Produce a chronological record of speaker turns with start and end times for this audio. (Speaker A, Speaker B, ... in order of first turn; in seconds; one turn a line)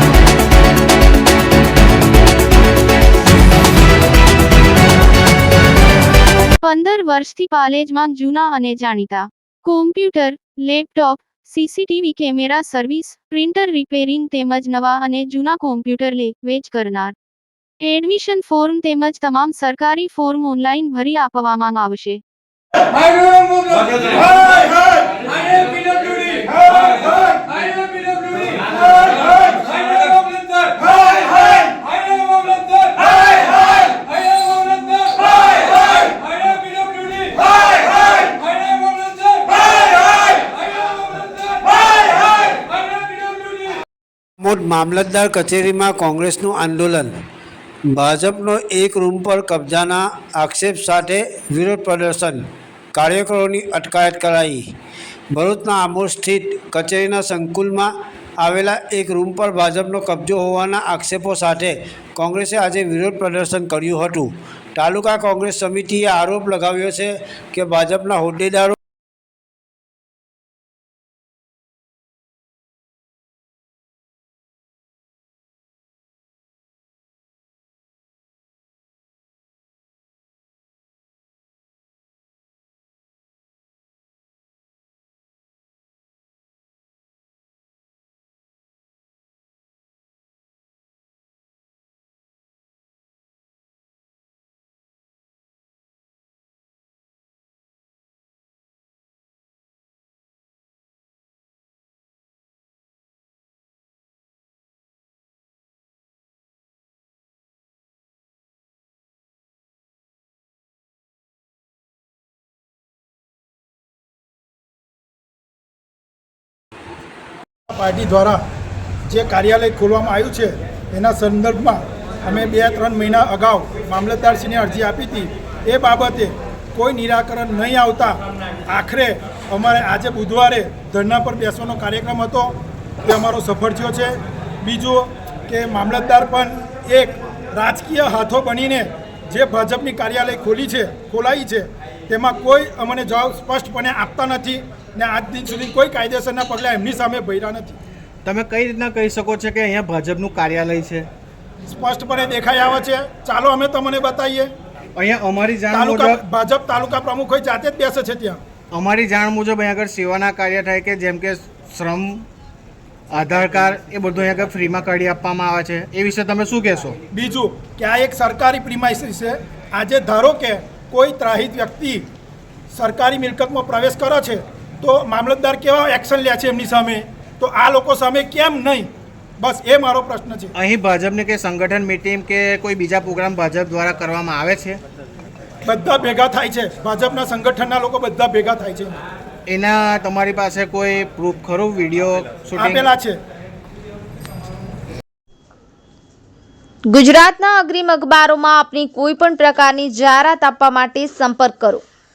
Speaker A: 6.4-17.1
Speaker A: 17.8-22.2
Speaker B: 44.4-47.1
Speaker B: 47.9-54.6
Speaker B: 55.3-68.8
Speaker C: 117.7-118.4
Speaker C: 119.1-147.7
Speaker D: 148.2-151.1
Speaker C: 151.7-154.5
Speaker D: 154.9-156.2
Speaker C: 155.7-158.4
Speaker D: 158.7-162.2
Speaker D: 163.1-166.9
Speaker C: 167.1-172.1
Speaker C: 172.7-178.9
Speaker C: 179.4-180.5
Speaker D: 180.5-184.8
Speaker C: 185.7-188.9
Speaker D: 189.5-192.9
Speaker C: 192.6-193.2
Speaker E: 196.9-201.8